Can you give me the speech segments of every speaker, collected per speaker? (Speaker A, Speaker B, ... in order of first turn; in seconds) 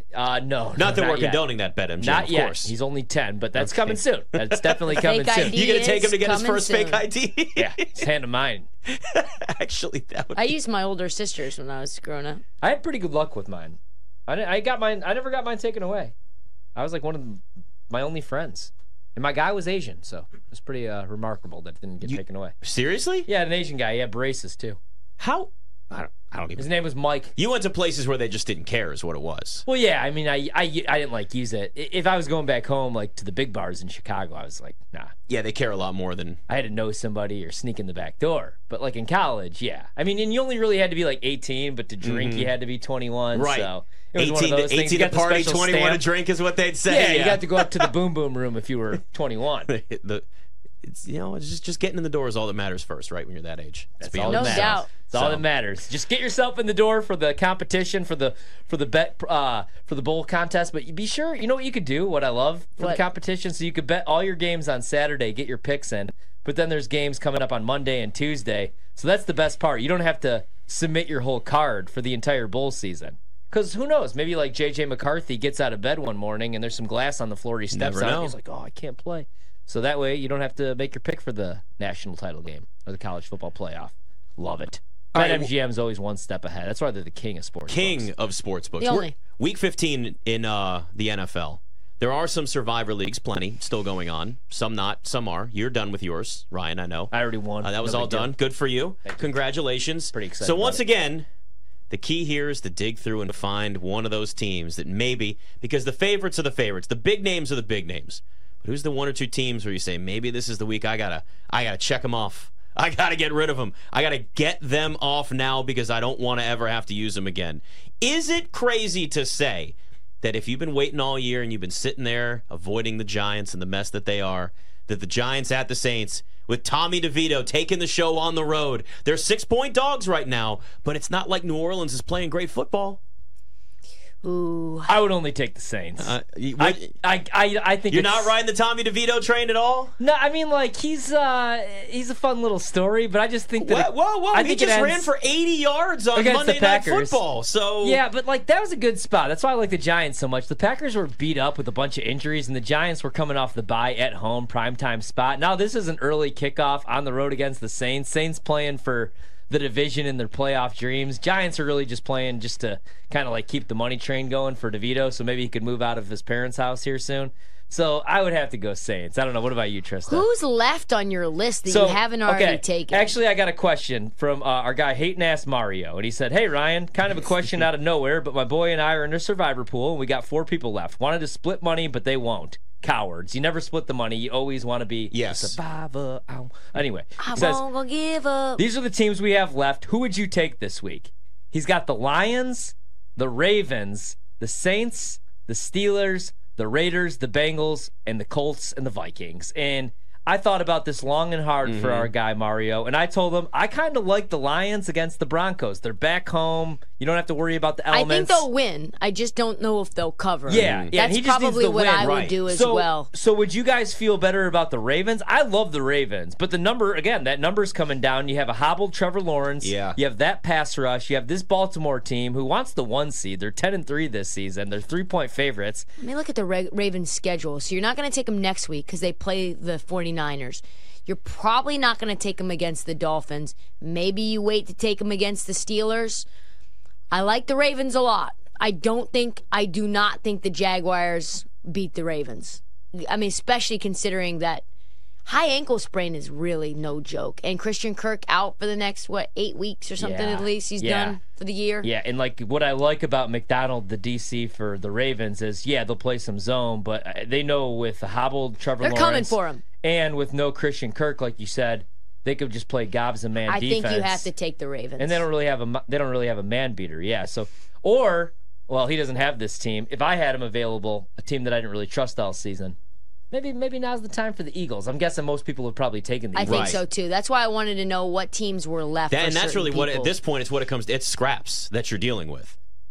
Speaker A: 0.1-1.4, 2.0-5.6, 7.6-8.7, 12.6-16.1, 16.8-22.6, 23.3-24.8, 26.6-27.4, 29.7-35.1, 36.5-46.0, 46.9-49.7, 54.0-88.1, 97.1-98.4, 99.0-99.4, 100.1-100.8, 134.9-138.3, 140.0-145.1, 146.1-147.2, 147.8-170.3, 171.7-187.6, 188.6-208.5, 210.5-225.9, 250.0-251.2, 251.8-264.3, 265.0-272.8, 273.3-276.8
Speaker B: 0.8-2.7, 3.6-8.1, 8.9-10.6, 22.0-23.3, 25.2-26.7, 27.4-29.6, 35.3-36.4, 42.0-42.5, 43.3-47.9, 49.7-50.2, 50.8-55.4, 77.7-78.3, 85.2-85.5, 87.7-101.3, 101.9-133.0, 136.0-136.9, 137.9-139.9, 143.6-148.0, 185.1-185.6, 201.7-202.1, 210.5-211.0, 212.0-212.4, 219.6-220.0, 276.4-276.8, 279.1-282.6
Speaker C: 4.9-7.1, 10.3-12.4, 54.3-54.9, 88.8-89.1, 134.2-134.9, 170.1-173.2, 187.2-188.6, 207.9-213.1, 226.0-236.3, 237.1-244.7, 245.2-251.9, 258.8-259.6, 263.5-265.2, 276.4-280.1